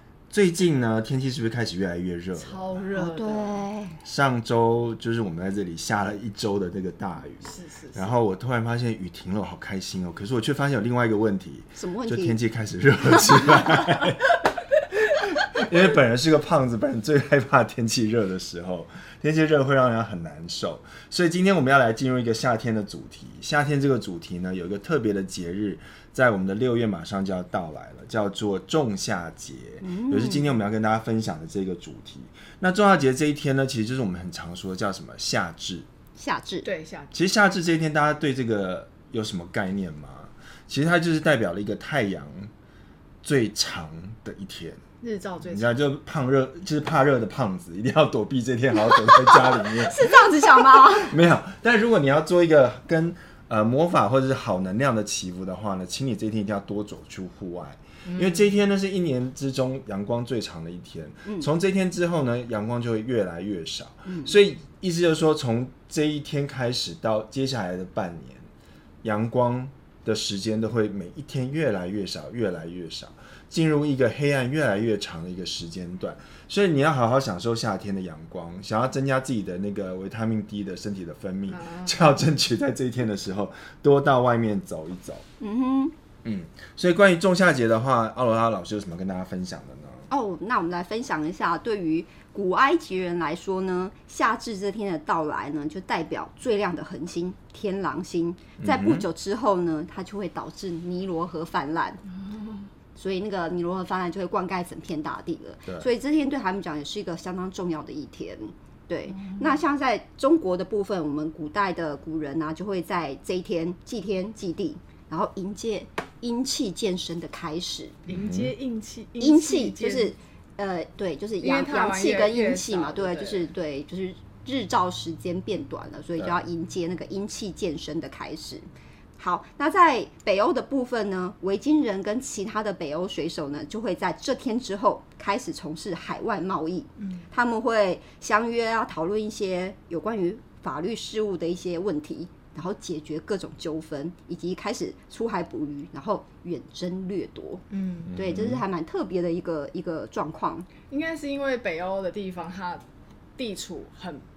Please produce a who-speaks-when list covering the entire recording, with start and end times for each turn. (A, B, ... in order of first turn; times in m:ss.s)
0:00.3-0:02.8 A
0:02.4-0:03.6 B
0:02.9-0:04.0 C
0:04.0-0:14.2 A
0:07.4-0:08.1 B
0:11.8-0:12.4 C
0:15.1-0:35.9 A
0:29.8-0:30.5 C
0:36.2-0:36.7 C
0:36.6-0:37.1 B
0:37.1-0:42.5 A
0:43.2-0:44.8 A
0:45.0-0:45.7 B
0:45.4-1:08.5 A
0:48.9-0:51.2 C
0:58.0-0:58.5 B
1:04.1-1:04.3 C
1:09.0-1:25.2 A
1:21.5-1:22.0 B
1:25.4-1:25.9 C
1:26.2-1:30.1 A
1:30.1-1:42.0 C
1:38.6-1:39.1 A
1:43.0-1:58.0 C
1:49.1-1:49.6 B
1:58.1-2:00.1 B
1:58.1-1:58.5 A
1:59.2-2:08.6 C
2:01.4-2:03.5 B
2:09.2-2:30.7 C
2:17.0-2:17.2 B
2:27.7-2:28.1 B
2:28.1-2:28.6 A
2:30.9-2:32.8 B
2:33.4-2:34.2 B